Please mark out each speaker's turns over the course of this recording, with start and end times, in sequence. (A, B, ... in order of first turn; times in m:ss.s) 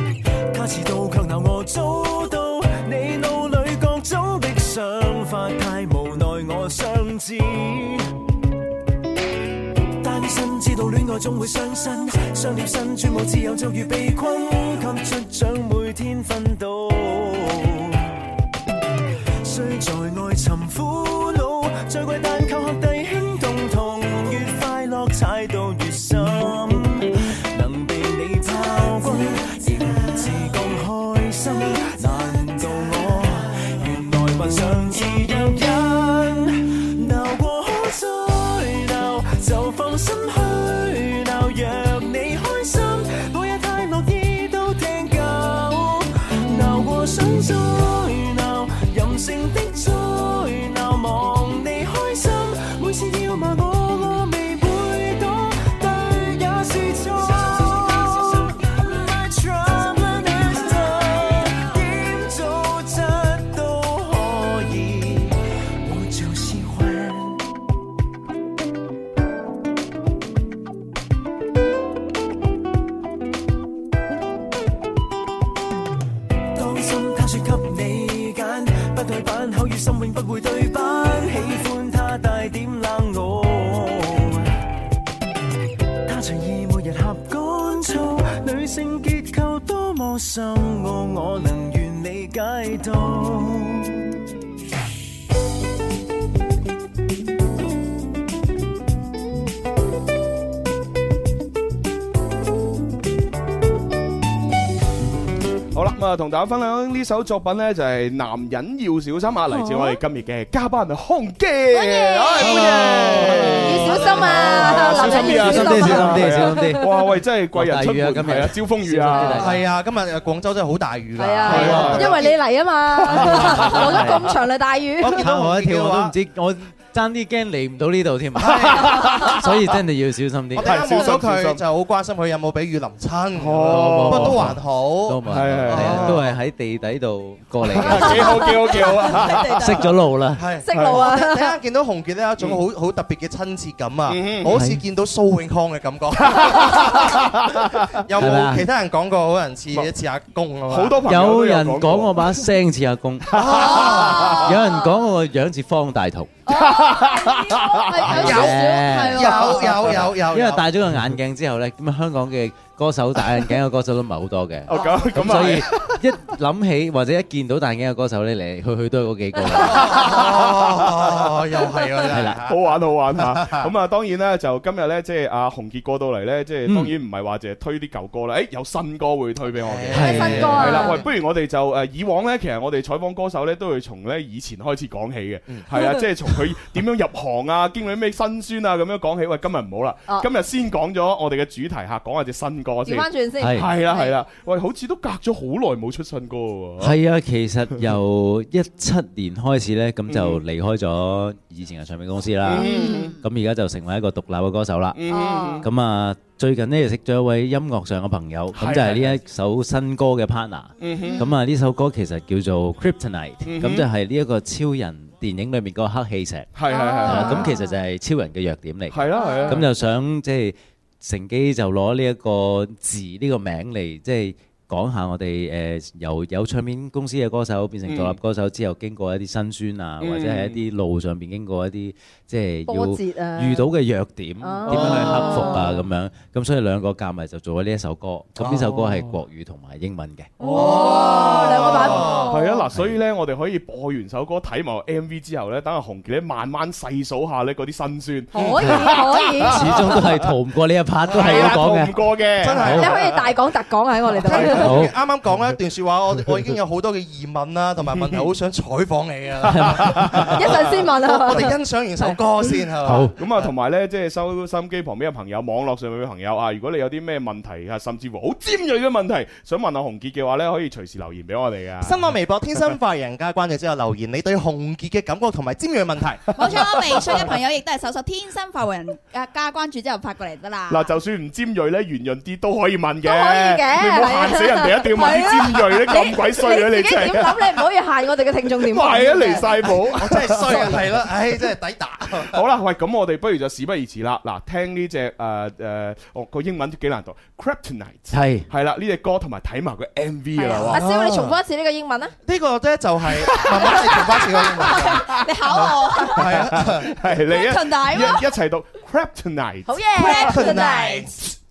0:00.5-0:08.1 A
0:10.0-0:18.1 A
0:19.4-1:07.4 A
1:16.5-1:24.5 A
1:26.0-1:34.2 A
1:45.7-1:59.5 B
1:49.5-1:50.0 C
1:51.7-1:56.8 C
1:52.4-1:54.8 D
1:54.9-1:56.9 E
1:57.5-1:59.6 E
1:59.3-2:02.4 D
2:01.2-2:05.2 C
2:01.4-2:02.2 B
2:01.6-2:01.9 E
2:03.1-2:04.0 B
2:03.1-2:04.2 E
2:03.1-2:04.1 D
2:05.0-2:06.1 D
2:05.2-2:10.9 E
2:08.4-2:09.4 D
2:08.5-2:09.4 B
2:10.6-2:16.3 D
2:10.6-2:11.6 B
2:13.4-2:14.5 B
2:13.6-2:18.5 E
2:15.2-2:16.2 B
2:17.8-2:19.8 B
2:17.9-2:19.9 C
2:19.6-2:20.4 E
2:20.4-2:31.1 D
2:20.6-2:21.5 C
2:20.7-2:21.0 B
2:24.1-2:24.5 B
2:24.5-2:24.8 E
2:26.2-2:28.0 B
2:28.2-2:28.7 E
2:30.7-2:32.4 B
2:31.1-2:36.3 E
2:33.3-2:34.5 B
2:33.3-2:34.4 D
2:33.6-2:34.9 C
2:36.5-2:39.9 C
2:36.5-2:38.4 B
2:38.0-2:40.7 D
2:38.1-2:50.2 E
2:44.7-2:45.9 B
2:44.7-2:45.1 C
2:49.6-2:53.7 D
2:49.8-2:51.4 B
2:52.1-2:52.4 E
2:52.4-3:16.9 B
2:56.7-2:56.9 E
2:59.6-3:01.0 D
2:59.9-3:00.6 E
2:59.9-3:01.0 C
3:05.7-3:06.0 C
3:12.8-3:14.2 C
3:13.4-3:13.7 E
3:16.8-3:25.0 E
3:20.1-3:20.4 B
3:22.4-3:23.1 B
3:22.6-3:23.1 C
3:22.8-3:23.1 F
3:24.9-3:25.6 B
3:25.1-3:25.7 C
3:25.6-4:00.3 E
3:28.6-3:29.2 B
3:30.8-3:31.2 B
3:33.4-3:33.9 B
3:36.5-3:37.5 B
3:36.7-3:37.7 C
3:38.9-3:39.6 B
3:39.2-3:39.6 C
3:47.9-3:48.2 B
3:50.0-3:50.6 B
3:52.7-3:53.7 C
3:54.4-3:55.8 C
3:54.7-3:55.5 B
4:00.4-4:02.6 C
4:00.4-4:02.4 D
4:00.4-4:10.2 B
4:08.3-4:10.0 C
4:08.3-4:08.8 D
4:09.4-4:12.0 E
4:11.1-4:13.2 B
4:11.1-4:11.5 D
4:12.4-4:13.0 D
4:12.5-4:12.9 E
4:12.7-4:14.8 C
4:14.2-4:23.5 D
4:14.2-4:14.7 B
4:14.5-4:14.9 E
4:18.0-4:18.2 B
4:19.5-4:20.3 E
4:19.5-4:20.5 B
4:20.3-4:22.2 C
4:22.8-4:23.1 E
4:23.2-4:32.0 B
4:31.8-4:37.2 D
4:36.4-4:40.9 F
4:40.7-4:47.7 B
4:43.0-4:49.7 C
4:48.6-4:50.8 B
4:49.9-4:52.4 D
4:52.3-5:00.8 B
4:58.1-4:58.5 E
5:00.4-5:02.1 C
5:00.7-5:01.4 D
5:02.2-5:06.9 D
5:03.3-5:03.6 B
5:04.8-5:05.0 B
5:05.0-5:06.2 F
5:06.2-5:09.8 B
5:07.3-5:08.3 F
5:09.7-5:11.1 C
5:10.0-5:11.0 F
5:10.1-5:11.1 D